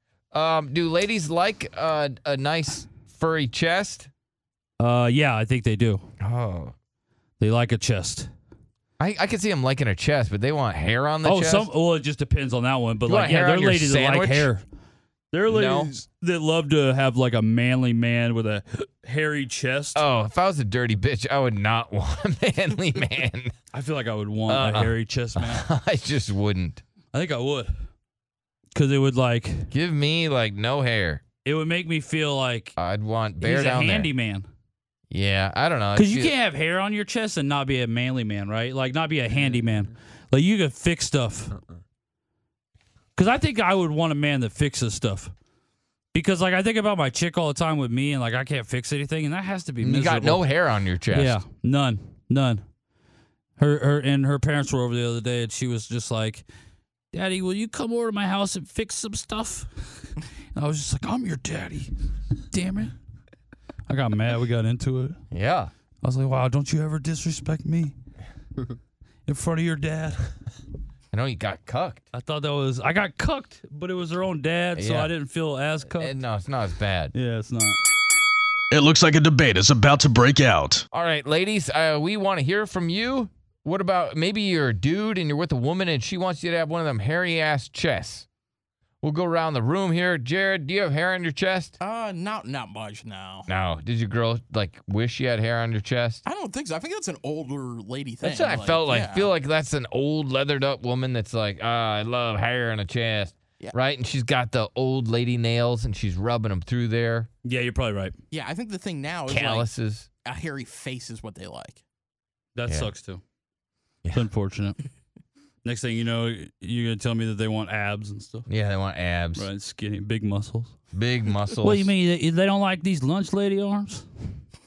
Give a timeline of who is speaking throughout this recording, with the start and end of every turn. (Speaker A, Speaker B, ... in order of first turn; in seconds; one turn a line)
Speaker A: 0.3-4.1
Speaker B: 4.8-6.0
Speaker A: 6.2-6.7
Speaker B: 7.4-8.3
Speaker A: 9.0-11.7
Speaker B: 11.2-14.6
Speaker A: 13.1-14.5
Speaker B: 15.3-20.0
Speaker A: 15.5-15.9
Speaker A: 19.9-23.5
Speaker B: 23.7-25.6
Speaker A: 24.5-26.8
Speaker B: 27.1-27.7
Speaker B: 28.7-29.7
Speaker A: 29.7-31.2
Speaker B: 31.4-32.7
Speaker A: 32.8-34.1
Speaker B: 33.4-34.5
Speaker A: 35.1-36.3
Speaker B: 35.9-41.5
Speaker B: 43.1-45.3
Speaker B: 46.1-50.5
Speaker A: 49.8-51.4
Speaker B: 51.1-52.6
Speaker B: 53.6-56.4
Speaker B: 57.1-61.9
Speaker B: 62.5-62.9
Speaker B: 63.9-65.2
Speaker A: 65.3-65.7
Speaker B: 66.0-67.9
Speaker B: 69.3-70.3
Speaker A: 71.1-72.0
Speaker B: 72.1-76.1
Speaker A: 74.8-75.1
Speaker A: 75.9-77.1
Speaker B: 77.1-77.8
Speaker C: 78.7-80.8
Speaker A: 80.9-88.3
Speaker A: 89.0-91.7
Speaker D: 91.8-93.5
Speaker A: 93.5-96.2
Speaker D: 96.2-99.3
Speaker A: 98.2-107.3
Speaker B: 107.4-108.1
Speaker D: 108.3-109.7
Speaker A: 109.3-110.1
Speaker D: 110.2-111.8
Speaker B: 112.5-113.2
Speaker B: 114.1-114.8
Speaker B: 115.6-118.5
Speaker A: 118.5-119.5
Speaker B: 119.3-120.7
Speaker A: 120.9-121.9
Speaker B: 121.6-124.0